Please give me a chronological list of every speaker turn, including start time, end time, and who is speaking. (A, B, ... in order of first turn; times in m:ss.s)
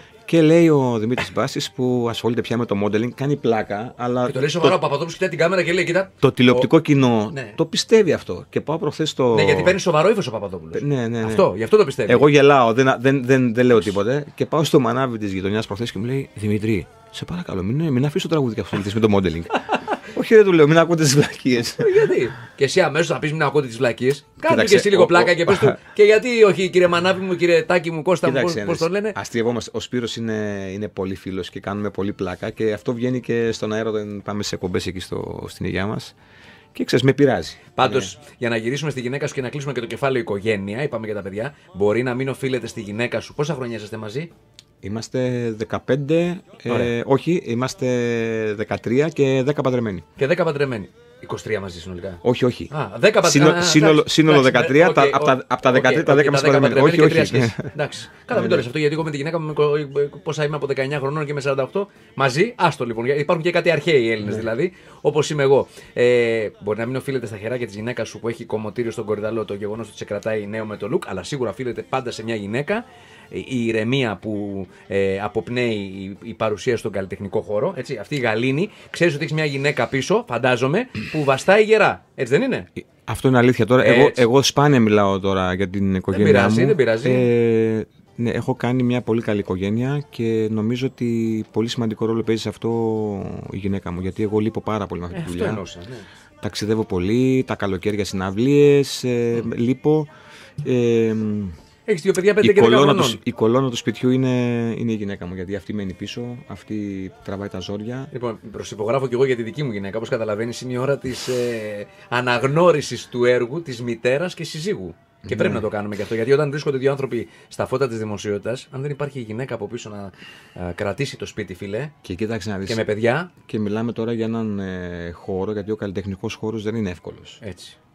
0:00.3-0:04.8 A
0:04.3-0:06.7 B
0:06.2-0:09.8 A
0:07.3-0:07.6 B
0:09.3-0:12.3 B
0:10.8-0:11.5 A
0:12.1-0:22.2 A
0:21.8-0:29.2 B
0:24.4-0:25.8 A
0:28.2-0:36.2 A
0:36.7-0:38.1 A
0:37.8-0:44.3 B
0:44.8-0:50.0 A
0:50.2-1:22.7 B
0:52.2-0:57.7 A
0:58.3-0:58.6 A
1:22.8-1:35.6 A
1:23.8-1:24.2 B
1:26.1-1:27.3 B
1:35.1-1:36.1 B
1:36.4-1:40.1 A
1:40.6-1:41.5 A
1:41.9-1:43.2 B
1:42.4-1:48.1 A
1:48.1-2:01.9 B
1:55.2-1:55.7 A
2:02.0-2:02.8 A
2:02.7-2:03.3 B
2:03.4-2:07.4 A
2:07.4-2:07.8 B